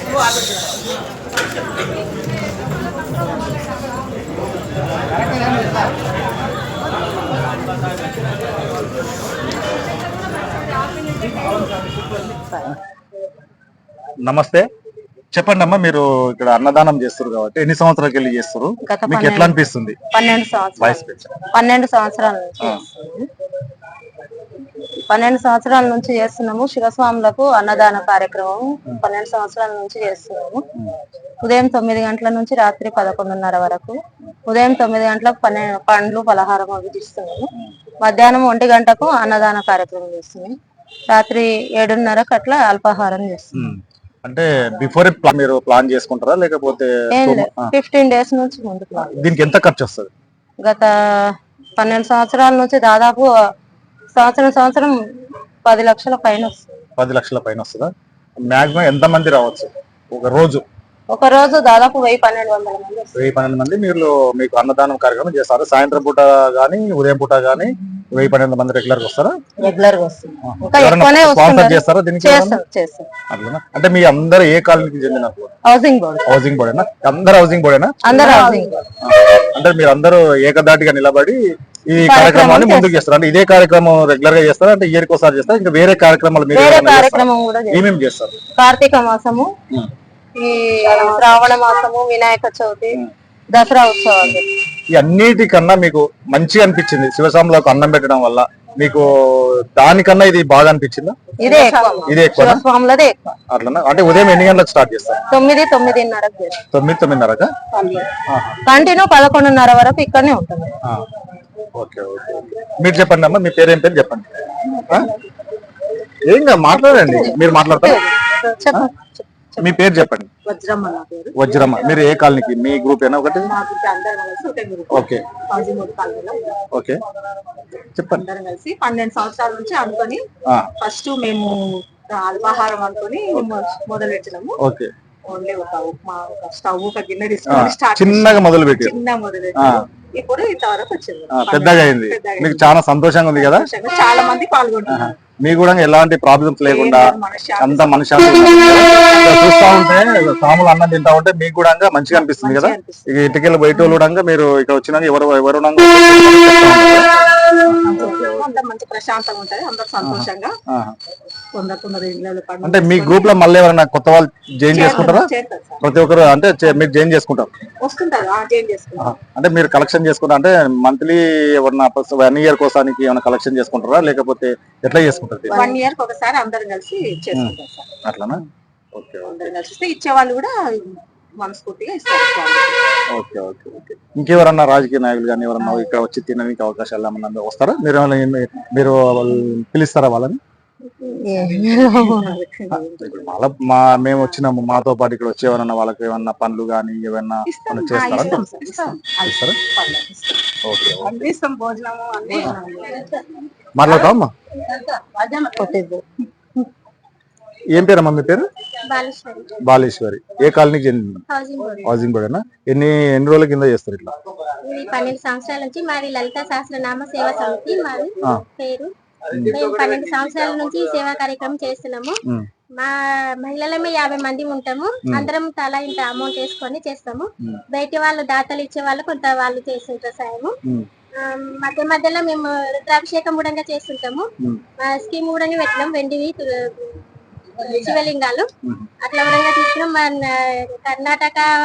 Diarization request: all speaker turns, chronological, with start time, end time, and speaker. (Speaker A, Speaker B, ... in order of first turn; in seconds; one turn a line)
Speaker A: 14.2-14.7
Speaker A: 15.3-20.0
Speaker B: 18.9-19.5
Speaker B: 20.1-23.3
Speaker A: 20.8-21.3
Speaker B: 25.1-30.7
Speaker B: 31.4-33.9
Speaker B: 34.5-37.5
Speaker B: 38.0-40.5
Speaker B: 41.1-43.5
Speaker A: 43.5-47.7
Speaker B: 47.1-49.3
Speaker A: 49.1-50.1
Speaker B: 50.6-53.3
Speaker B: 54.1-54.9
Speaker B: 55.6-56.6
Speaker A: 57.0-60.6
Speaker B: 61.1-63.1
Speaker A: 63.1-69.3
Speaker B: 69.6-73.1
Speaker A: 70.4-72.6
Speaker A: 73.3-75.5
Speaker B: 75.7-76.3
Speaker A: 76.2-88.3
Speaker B: 78.0-78.8
Speaker B: 82.0-83.0
Speaker B: 86.5-87.8
Speaker B: 88.6-89.5
Speaker B: 90.4-94.5
Speaker A: 94.9-101.2
Speaker C: 101.4-102.2
Speaker B: 101.4-103.3
Speaker A: 102.0-102.6
Speaker A: 103.5-105.2
Speaker B: 105.3-106.6
Speaker A: 106.7-107.5
Speaker C: 107.7-108.1
Speaker A: 108.3-108.6
Speaker B: 108.6-110.8
Speaker A: 111.7-115.1
Speaker A: 116.3-118.0
Speaker B: 116.9-119.6
Speaker A: 119.6-120.3
Speaker C: 120.4-121.9
Speaker A: 121.3-123.5
Speaker C: 123.3-126.6
Speaker A: 124.9-125.2
Speaker A: 126.7-127.0
Speaker A: 127.9-128.2
Speaker C: 128.1-130.2
Speaker C: 130.8-131.6
Speaker C: 132.1-134.6
Speaker A: 134.6-134.9
Speaker C: 135.2-142.7
Speaker A: 137.5-138.9
Speaker A: 139.6-139.8
Speaker A: 141.3-143.7
Speaker C: 143.3-145.1
Speaker A: 144.9-157.1
Speaker C: 146.6-150.0
Speaker C: 152.1-153.1
Speaker A: 157.7-158.4
Speaker C: 157.8-160.5
Speaker A: 160.0-160.9
Speaker C: 161.5-163.3
Speaker A: 162.6-165.3
Speaker C: 164.7-165.8
Speaker A: 165.8-167.5
Speaker C: 167.8-169.2
Speaker A: 169.0-175.7
Speaker C: 175.5-178.0
Speaker A: 178.0-178.4
Speaker A: 178.9-179.5
Speaker C: 179.2-182.8
Speaker A: 183.1-190.4
Speaker B: 191.2-192.3
Speaker C: 191.3-193.2
Speaker A: 193.0-199.6
Speaker C: 194.1-194.4
Speaker C: 197.4-200.4
Speaker A: 200.6-201.2
Speaker C: 201.0-203.1
Speaker A: 203.7-204.3
Speaker C: 205.2-205.7
Speaker B: 205.6-206.0
Speaker A: 207.7-208.5
Speaker D: 208.9-209.5
Speaker A: 209.6-211.2
Speaker D: 211.3-211.9
Speaker A: 211.8-214.1
Speaker D: 214.6-222.2
Speaker A: 219.3-219.6
Speaker D: 222.8-230.5
Speaker D: 231.2-234.2
Speaker D: 234.8-238.5
Speaker A: 238.6-238.9
Speaker D: 239.0-241.4